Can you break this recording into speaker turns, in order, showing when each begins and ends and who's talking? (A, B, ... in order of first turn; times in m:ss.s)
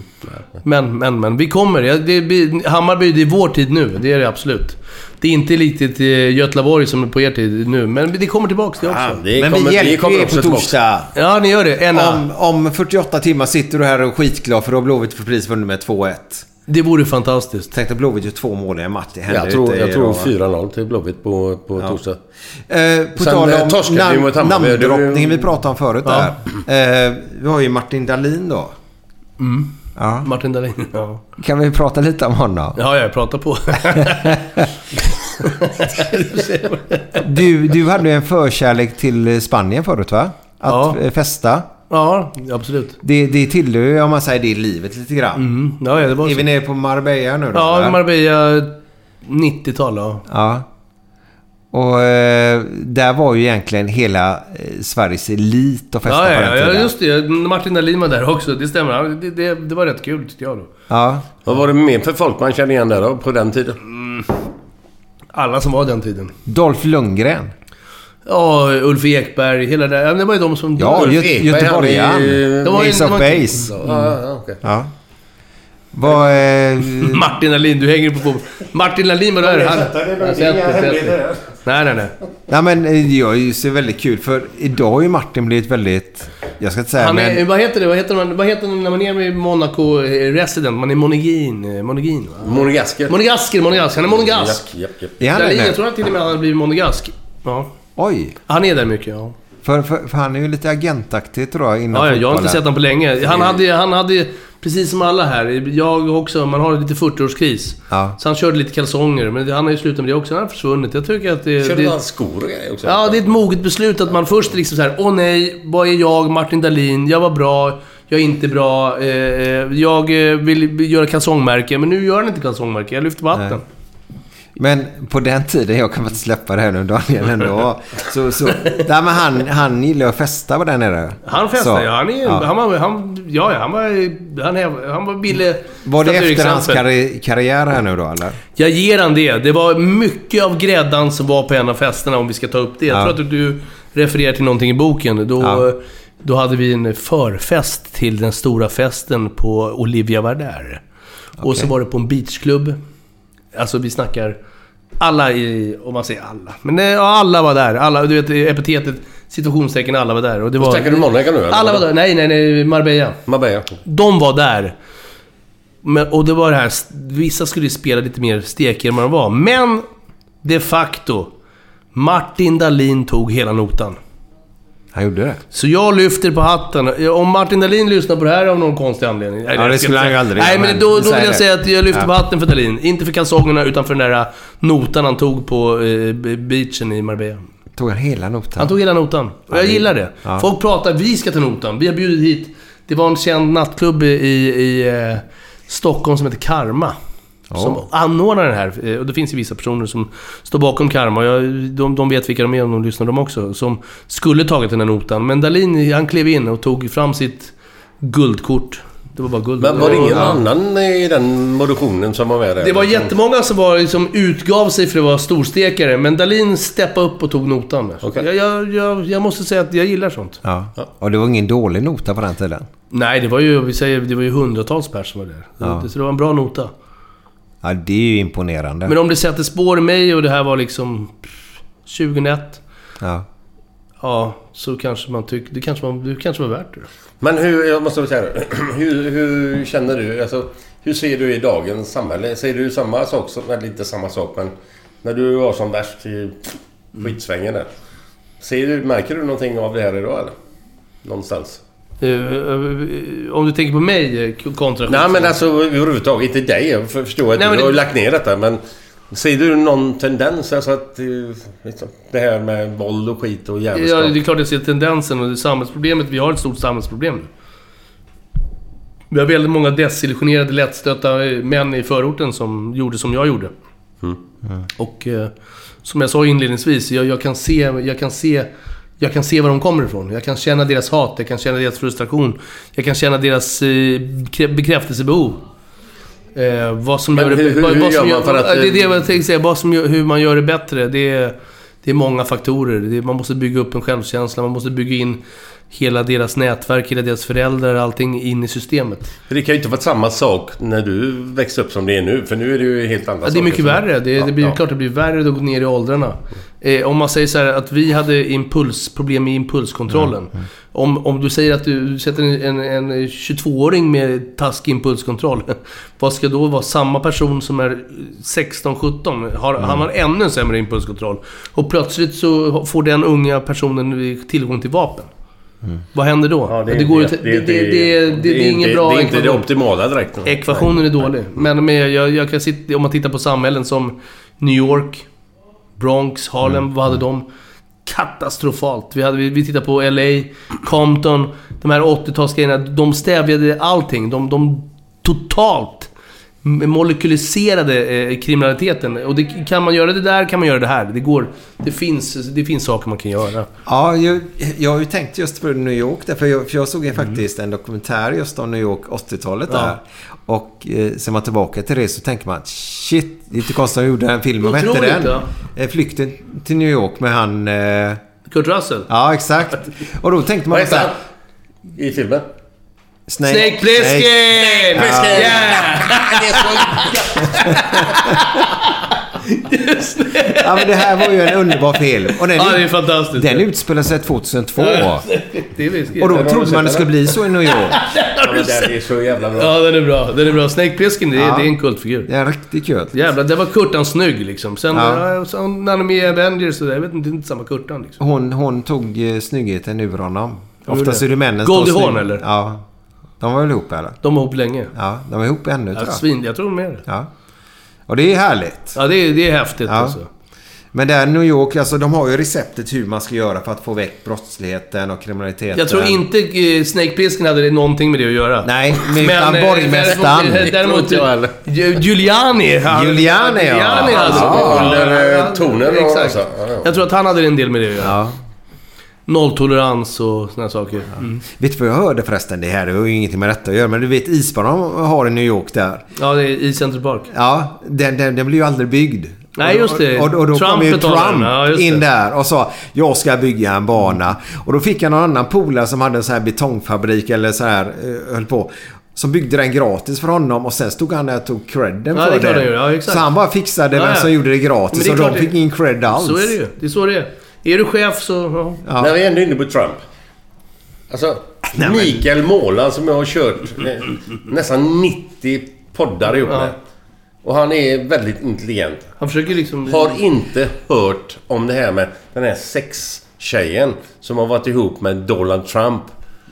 0:00.6-0:09.2 A
0:08.8-0:10.8 B
0:09.4-0:11.1 C
0:11.2-0:12.2 A
0:11.9-0:16.5 C
0:16.7-0:17.7 A
0:17.7-0:20.3 C
0:19.3-0:22.2 B
0:22.7-0:28.7 C
0:23.2-0:25.5 B
0:26.0-0:26.3 A
0:29.4-0:31.2 A
0:30.0-0:30.3 C
0:31.4-0:32.8 C
0:32.8-0:34.4 A
0:34.0-0:34.6 C
0:35.4-0:37.2 A
0:37.2-0:41.7 C
0:40.7-0:41.0 A
0:41.9-0:43.0 A
0:43.0-0:48.0 C
0:45.4-0:46.5 A
0:47.5-0:50.2 A
0:50.3-0:50.7 C
0:51.7-0:56.9 C
0:56.1-1:00.7 A
1:00.9-1:01.3 C
1:01.5-1:03.8 B
1:03.9-1:04.3 A
1:05.3-1:06.3 A
1:06.5-1:07.5 C
1:08.3-1:11.2 A
1:10.8-1:13.7 C
1:10.9-1:12.9 B
1:12.6-1:13.9 A
1:13.5-1:14.6 B
1:14.6-1:14.9 C
1:15.9-1:17.3 C
1:16.9-1:22.1 A
1:19.5-1:21.1 C
1:20.0-1:21.4 B
1:22.5-1:27.4 C
1:27.0-1:34.6 A
1:32.4-1:33.2 B
1:34.0-1:35.2 B
1:35.2-1:35.8 C
1:35.3-1:37.7 A
1:38.0-1:38.4 C
1:38.5-1:39.4 A
1:39.6-1:42.6 C
1:41.9-1:52.0 A
1:47.9-1:48.2 C
1:51.6-1:53.3 B
1:52.8-2:03.6 A
2:03.3-2:03.6 C
2:04.6-2:12.5 C
2:11.3-2:16.8 A
2:15.8-2:18.4 C
2:18.6-2:30.8 A
2:22.9-2:23.2 C
2:25.4-2:25.7 C
2:31.4-2:31.7 C
2:31.4-2:32.8 A
2:33.5-2:34.4 A
2:35.0-2:43.2 A
2:40.6-2:41.9 B
2:43.3-2:43.8 B
2:43.9-2:44.8 A
2:45.8-2:49.9 A
2:50.4-2:51.3 A
2:51.9-2:54.0 A
2:54.9-2:55.4 C
2:55.5-3:07.4 A
2:59.5-3:02.1 C
3:07.8-3:08.8 C
3:08.6-3:17.0 A
3:09.5-3:10.5 C
3:17.5-3:17.8 C
3:17.6-3:30.4 A
3:29.6-3:33.1 B
3:32.6-3:40.4 A
3:40.4-3:42.7 C
3:42.9-3:46.7 A
3:45.6-3:45.9 C
3:47.6-3:49.0 C
3:48.9-3:51.3 A
3:51.8-3:52.6 A
3:54.0-3:56.9 A
3:57.2-4:07.7 B
4:08.4-4:10.3 B
4:11.0-4:11.6 B
4:12.0-4:15.4 A
4:14.9-4:24.2 B
4:17.4-4:17.8 A
4:23.7-4:27.3 A
4:29.1-4:33.5 A
4:34.8-4:35.3 A
4:35.8-4:38.5 A
4:39.0-4:45.4 A
4:46.4-4:59.1 A
4:47.1-4:49.0 B
4:59.3-5:04.6 B
5:03.3-5:25.1 A
5:19.6-5:19.8 C
5:25.9-5:29.5 A
5:26.5-5:30.7 B
5:30.3-5:35.1 A
5:35.8-5:37.3 A
5:37.9-5:45.9 A
5:46.4-5:53.5 A
5:53.7-6:08.0 C
5:59.5-5:59.8 A
6:04.4-6:05.3 A
6:08.3-6:08.9 A
6:08.9-6:10.9 C
6:10.5-6:11.0 B
6:11.8-6:12.3 B
6:13.1-6:15.4 C
6:13.2-6:18.7 A
6:14.4-6:17.5 B
6:19.2-6:21.6 A
6:20.2-6:25.1 C
6:22.3-6:23.5 A
6:24.6-6:26.3 A
6:26.0-6:27.8 C
6:26.0-6:26.9 B
6:27.5-6:28.7 A
6:28.2-6:29.6 B
6:29.4-6:32.1 A
6:31.2-6:31.5 C
6:32.0-6:33.0 C
6:32.9-6:38.0 A
6:34.7-6:35.0 C
6:38.0-6:42.6 C
6:40.7-6:42.2 A
6:43.2-6:44.0 C
6:44.0-6:44.7 A
6:44.7-6:46.0 C
6:45.7-6:46.8 A
6:47.9-6:48.8 C
6:48.8-6:50.1 A
6:49.7-6:50.0 C
6:50.7-6:56.0 C
6:55.5-7:08.0 A
6:58.4-7:00.5 C
7:00.4-7:01.4 B
7:02.7-7:04.8 C
7:03.8-7:06.7 B
7:07.8-7:08.2 C
7:09.1-7:11.2 A
7:11.2-7:15.8 C
7:16.0-7:17.1 A
7:17.1-7:36.4 C
7:19.4-7:21.8 A
7:31.9-7:33.1 A
7:33.7-7:34.1 A
7:34.7-7:35.3 A
7:35.9-7:38.6 A
7:38.7-7:38.9 C
7:38.8-7:39.8 B
7:40.9-7:46.6 B
7:41.6-7:42.0 C
7:46.2-7:46.5 A
7:47.2-7:48.9 B
7:49.0-7:50.0 A
7:49.7-7:55.9 B